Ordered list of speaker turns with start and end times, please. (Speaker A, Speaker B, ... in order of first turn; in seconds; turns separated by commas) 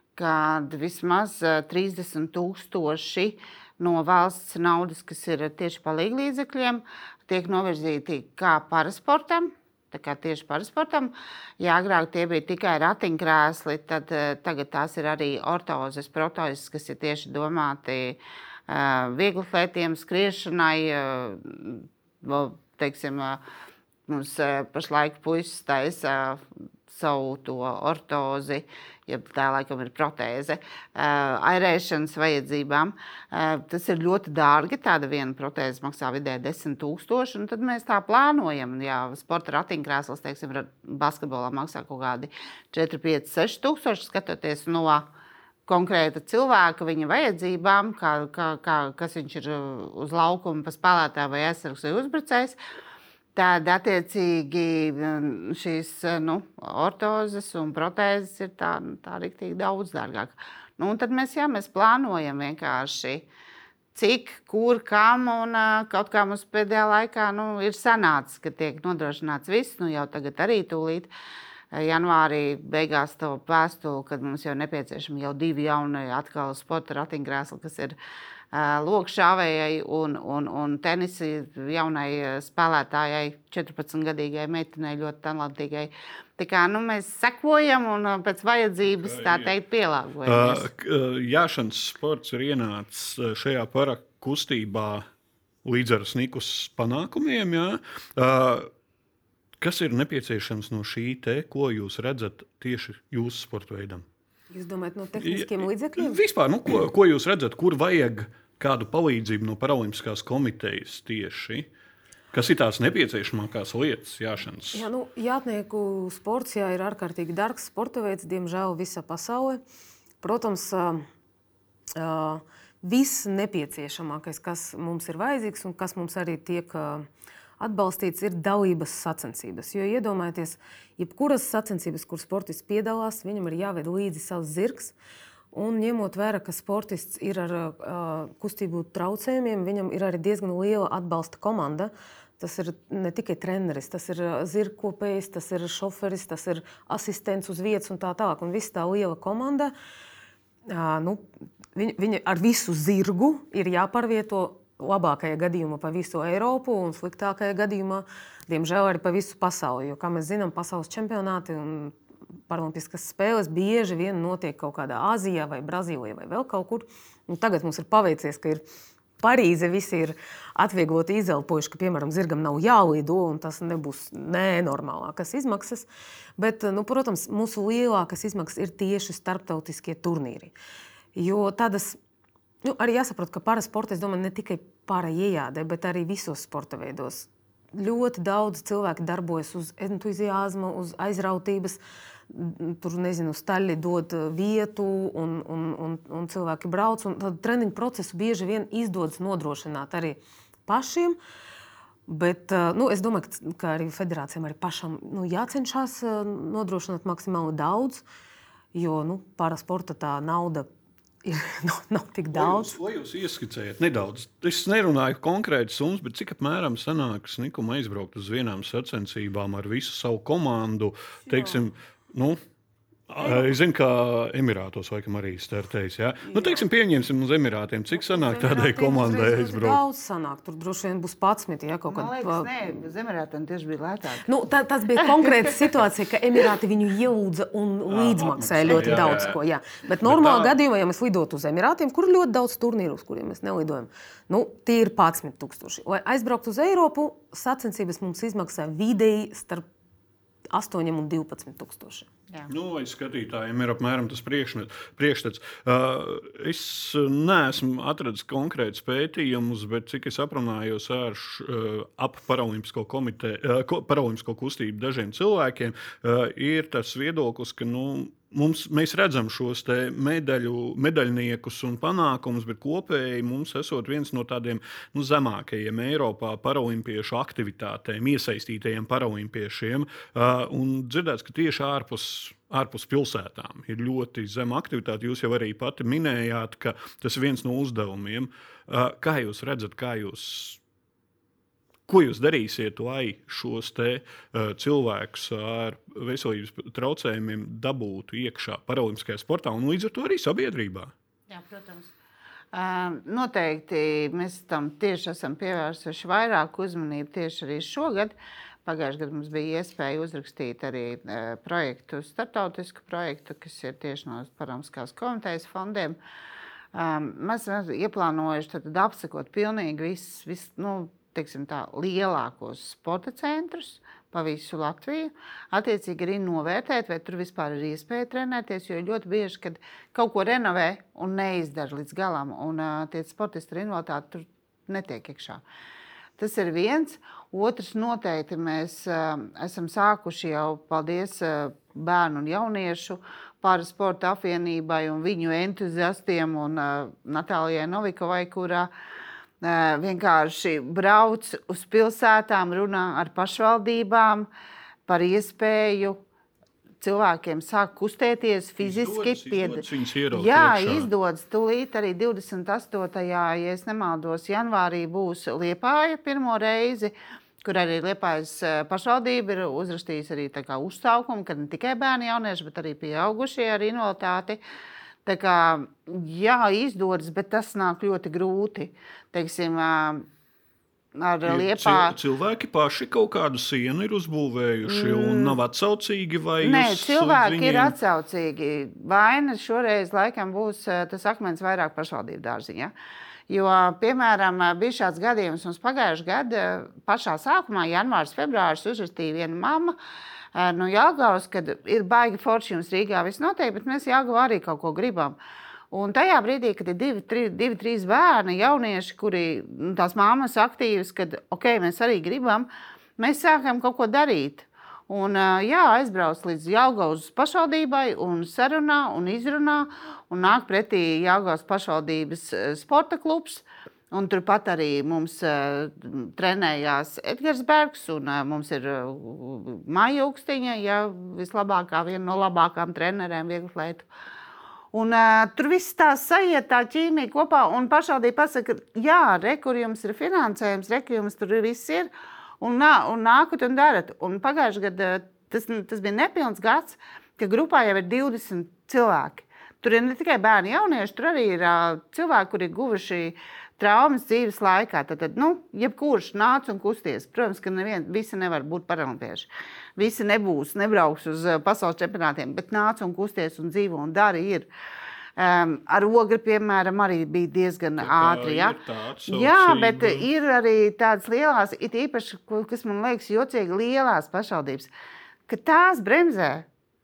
Speaker A: 0.1-23.4, Speaker A: 24.1-45.1, Speaker A: 45.7-52.6, Speaker A: 53.3-63.3, Speaker A: 63.9-71.1, Speaker A: 71.7-78.0, Speaker A: 78.5-90.7, Speaker B: 88.9-89.5, Speaker B: 90.2-95.0, Speaker B: 95.6-98.7, Speaker B: 99.6-104.0, Speaker C: 104.5-106.2, Speaker B: 105.2-111.7, Speaker B: 112.3-114.9, Speaker C: 114.7-119.6, Speaker C: 120.2-121.1, Speaker C: 121.9-127.1, Speaker C: 127.6-134.9, Speaker C: 135.5-149.7, Speaker C: 150.7-161.9, Speaker C: 162.5-168.6, Speaker C: 169.2-180.5, Speaker C: 181.2-182.0, Speaker C: 182.6-201.2, Speaker C: 202.1-208.0, Speaker C: 208.7-210.7, Speaker C: 211.2-212.8, Speaker B: 212.3-222.4, Speaker C: 221.3-221.6, Speaker B: 223.1-229.8, Speaker C: 223.2-223.5, Speaker C: 227.9-232.5, Speaker A: 231.9-234.3, Speaker C: 234.2-249.7, Speaker B: 237.9-239.4, Speaker A: 238.7-238.9, Speaker B: 240.0-240.5, Speaker C: 250.5-252.1, Speaker B: 252.5-290.6, Speaker B: 291.9-300.9, Speaker A: 301.3-301.9, Speaker A: 302.5-316.0, Speaker A: 316.7-335.4, Speaker A: 336.2-348.7, Speaker A: 349.4-354.3, Speaker A: 354.9-356.0, Speaker A: 356.8-374.4, Speaker B: 358.6-360.9, Speaker A: 375.0-380.1, Speaker A: 380.9-381.9, Speaker B: 381.2-387.8, Speaker A: 384.7-385.4, Speaker A: 386.4-392.7, Speaker A: 393.3-399.8, Speaker A: 400.3-405.2, Speaker A: 405.7-433.9, Speaker A: 434.7-441.9, Speaker A: 442.4-464.5, Speaker A: 465.2-468.6, Speaker B: 467.8-470.1, Speaker A: 469.1-474.7, Speaker A: 475.3-476.5